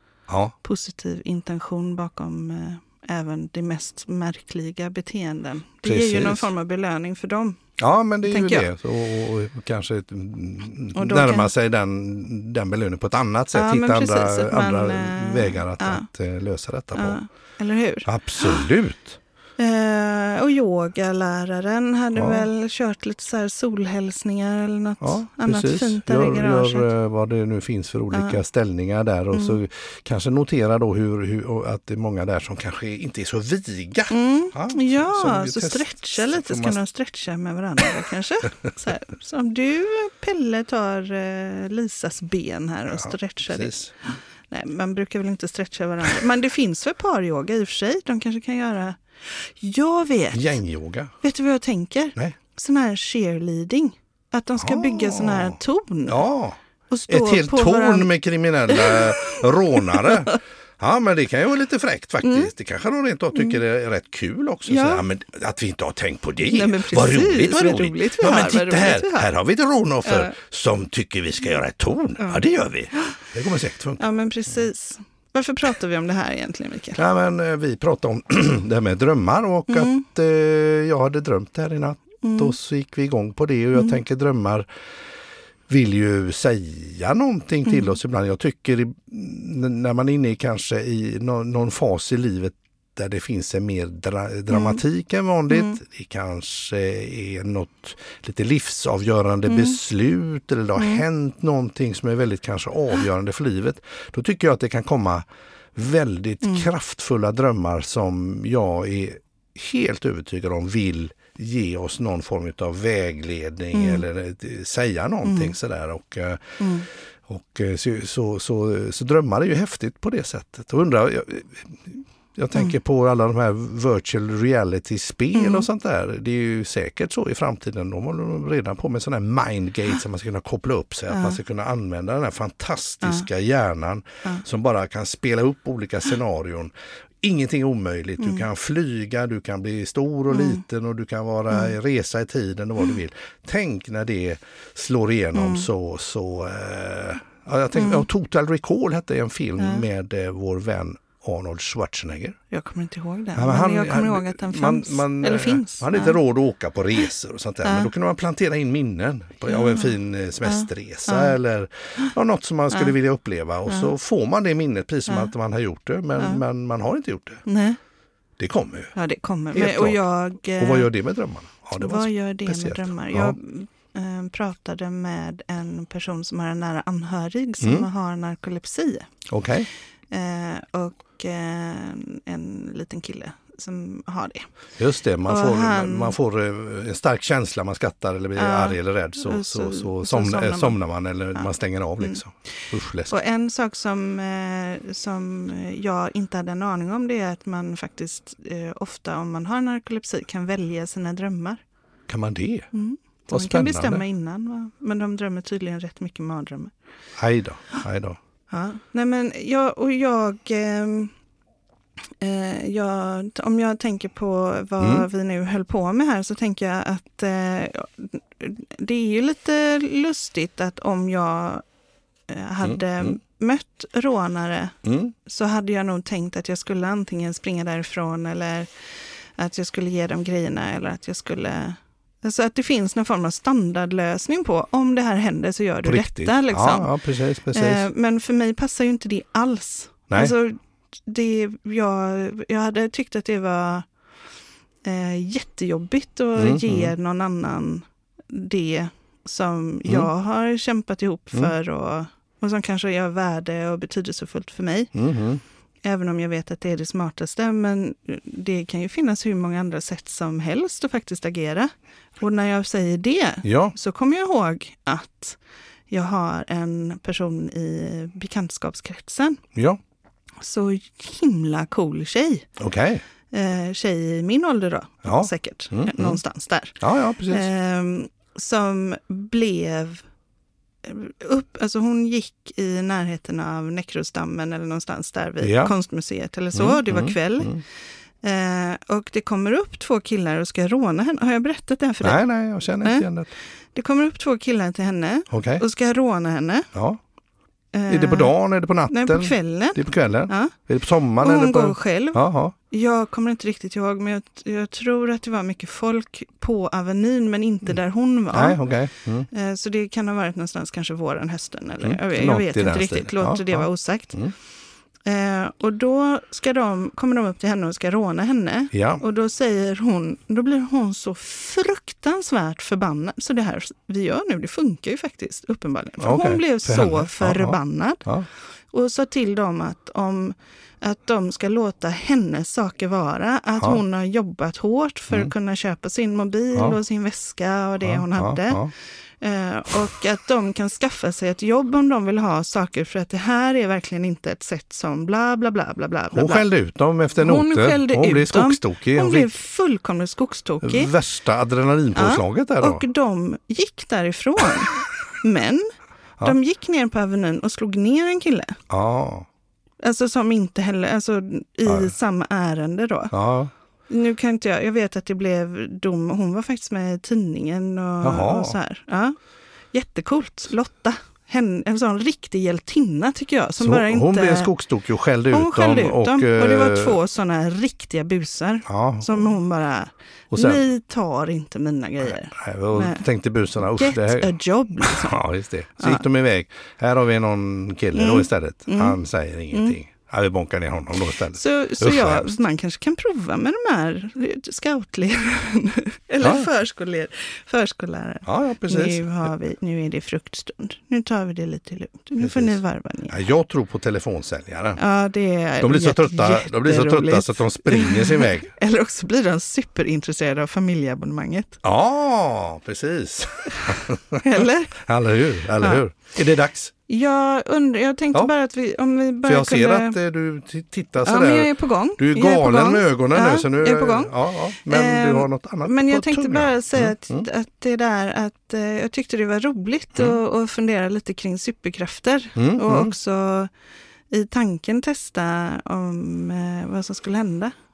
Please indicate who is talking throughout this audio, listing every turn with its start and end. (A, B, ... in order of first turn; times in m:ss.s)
0:00.3-0:00.6 A
0:00.6-0:07.6 B
0:05.8-0:06.5 A
0:07.8-0:17.2 A
0:08.3-0:08.7 B
0:11.0-0:11.5 B
0:13.5-0:16.1 B
0:17.0-0:18.6 B
0:18.1-0:19.2 A
0:19.6-0:26.9 B
0:22.2-0:22.5 A
0:25.0-0:36.8 A
0:28.1-0:28.4 B
0:34.1-0:50.4 B
0:42.9-0:43.9 A
0:50.3-0:51.2 A
0:51.2-0:56.2 B
0:54.6-1:14.0 A
0:56.9-0:58.1 B
0:58.7-0:59.0 B
1:00.0-1:00.3 B
1:02.2-1:02.5 B
1:04.7-1:05.0 B
1:06.5-1:09.3 B
1:10.1-1:10.3 B
1:14.0-1:17.0 B
1:17.0-1:24.7 A
1:19.7-1:20.0 B
1:22.2-1:22.5 B
1:25.7-1:56.6 A
1:34.5-1:34.8 B
1:35.5-1:35.8 B
1:39.5-1:39.8 B
1:40.8-1:41.0 B
1:53.7-1:54.0 B
1:55.2-1:55.5 B
1:56.6-1:56.9 B
1:57.3-2:32.4 A
2:05.3-2:05.7 B
2:11.1-2:11.4 B
2:20.3-2:20.6 B
2:25.4-2:25.7 B
2:27.8-2:28.0 B
2:32.5-2:36.2 B
2:33.4-2:47.4 A
2:37.6-2:37.9 B
2:39.5-2:39.9 B
2:40.4-2:41.4 B
2:43.7-2:43.9 B
2:47.5-2:47.8 B
2:48.4-2:49.0 A
2:49.0-2:50.9 B
2:49.5-2:50.0 A
2:50.6-2:53.4 A
2:51.8-2:59.1 B
2:57.6-2:57.9 A
2:59.3-2:59.7 A
3:00.1-3:04.5 B
3:04.8-3:13.1 A
3:05.2-3:06.2 B
3:08.4-3:10.8 B
3:13.1-3:21.6 B
3:22.1-3:22.7 A
3:22.7-3:26.7 B
3:23.3-3:24.0 A
3:27.2-3:28.2 A
3:28.5-3:31.1 B
3:32.2-3:41.6 B
3:34.8-3:35.1 A
3:42.3-3:48.7 B
3:42.6-3:43.2 A
3:44.8-3:45.1 A
3:49.4-3:56.9 B
3:55.8-3:57.9 A
3:57.5-4:03.9 B
4:00.1-4:00.4 A
4:04.8-4:14.9 B
4:06.4-4:06.9 A
4:09.8-4:10.1 A
4:14.9-4:15.4 A
4:15.8-4:25.4 B
4:23.4-4:23.7 A
4:25.9-4:29.4 B
4:29.5-4:29.8 A
4:30.4-4:32.5 B
4:32.6-4:33.0 A
4:33.3-4:40.0 B
4:35.0-4:36.2 A
4:36.8-4:37.5 A
4:40.8-4:47.6 B
4:45.4-4:45.7 A
4:46.5-4:47.6 A
4:48.2-4:52.2 B
4:52.0-4:53.3 A
4:53.8-4:56.7 B
4:55.3-4:55.6 A
4:56.7-4:57.0 A
4:57.7-4:58.4 B
4:57.9-5:02.6 A
4:58.9-5:00.5 B
5:01.2-5:08.6 B
5:08.3-5:09.3 A
5:09.3-5:14.2 B
5:11.8-5:14.3 A
5:15.0-5:28.0 B
5:18.7-5:19.0 A
5:26.0-5:28.3 A
5:28.7-5:38.6 B
5:37.8-5:38.7 A
5:39.2-5:46.4 B
5:46.1-5:49.3 A
5:47.2-5:50.9 B
5:50.6-5:52.8 A
5:52.0-5:55.7 B
5:56.2-5:58.6 B
5:58.7-5:59.3 A
5:59.8-6:03.1 B
6:01.7-6:01.9 A
6:03.1-6:03.5 A
6:03.9-6:09.2 B
6:08.0-6:08.6 A
6:09.7-6:14.5 B
6:13.6-6:17.0 A
6:15.3-6:23.0 B
6:18.7-6:19.3 A
6:20.3-6:20.6 A
6:22.0-6:32.3 A
6:23.6-6:25.2 B
6:28.0-6:29.0 B
6:31.3-6:43.2 B
6:36.2-6:36.5 A
6:38.3-6:39.3 A
6:42.2-6:44.8 A
6:44.8-6:51.6 B
6:45.6-6:48.5 A
6:51.6-6:56.7 A
6:53.7-6:54.8 B
6:56.9-7:00.0 B
6:59.2-7:07.3 A
7:01.0-7:13.5 B
7:12.4-7:12.9 A
7:14.1-7:17.5 B